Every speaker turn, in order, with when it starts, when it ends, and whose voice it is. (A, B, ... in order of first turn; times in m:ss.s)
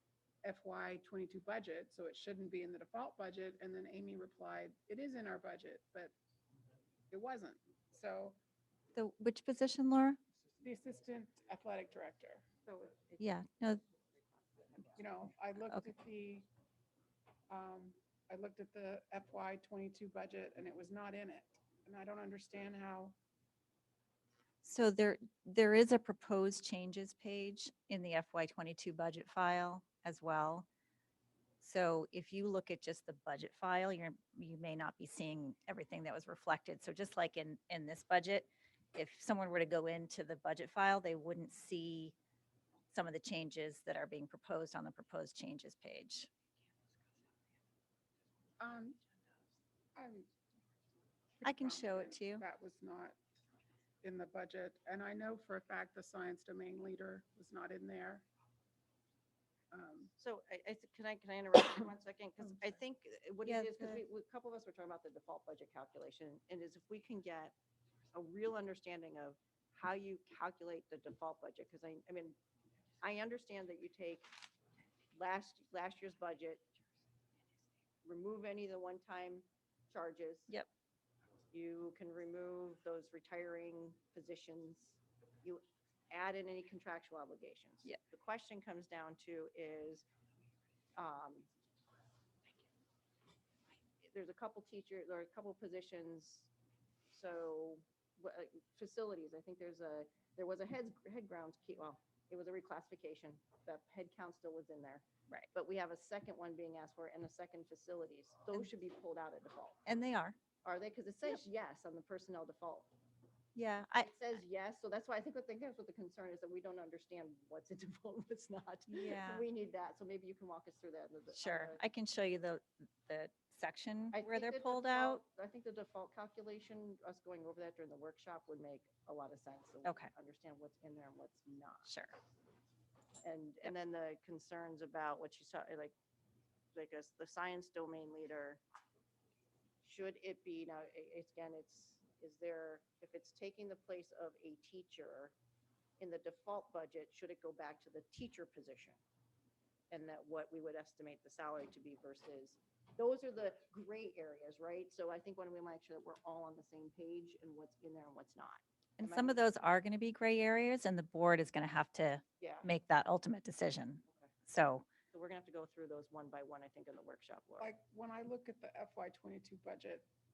0:00.4-0:06.1 A
0:07.1-0:08.4 A
0:09.0-0:10.2 B
0:10.6-0:12.5 A
0:12.6-0:15.1 C
0:13.2-0:13.8 B
0:15.0-0:16.5 A
0:17.5-0:23.1 A
0:24.6-0:30.7 B
0:31.6-0:42.1 B
0:42.9-0:46.3 B
0:48.6-0:49.0 A
0:50.0-0:50.3 A
0:51.4-0:53.2 A
0:51.4-0:52.4 B
0:54.0-0:58.2 A
0:59.7-1:00.1 A
1:00.2-1:07.5 C
1:03.5-1:04.0 B
1:08.1-1:12.4 C
1:13.0-1:14.3 C
1:15.1-1:16.6 C
1:18.0-1:20.5 C
1:21.5-1:30.0 C
1:31.0-1:31.5 C
1:34.0-1:36.5 C
1:37.1-1:49.8 C
1:49.8-1:50.4 B
1:50.6-1:52.9 C
1:53.5-1:54.1 B
1:54.0-2:01.8 C
1:58.9-1:59.4 B
2:01.3-2:05.2 B
2:04.1-2:11.9 C
2:09.8-2:10.1 B
2:11.8-2:12.1 B
2:13.2-2:15.9 C
2:16.7-2:18.6 C
2:19.8-2:25.3 C
2:26.0-2:29.0 C
2:29.9-2:39.4 C
2:39.0-2:44.8 B
2:42.4-2:42.7 C
2:44.1-2:44.3 C
2:45.1-2:47.7 C
2:47.6-2:50.1 A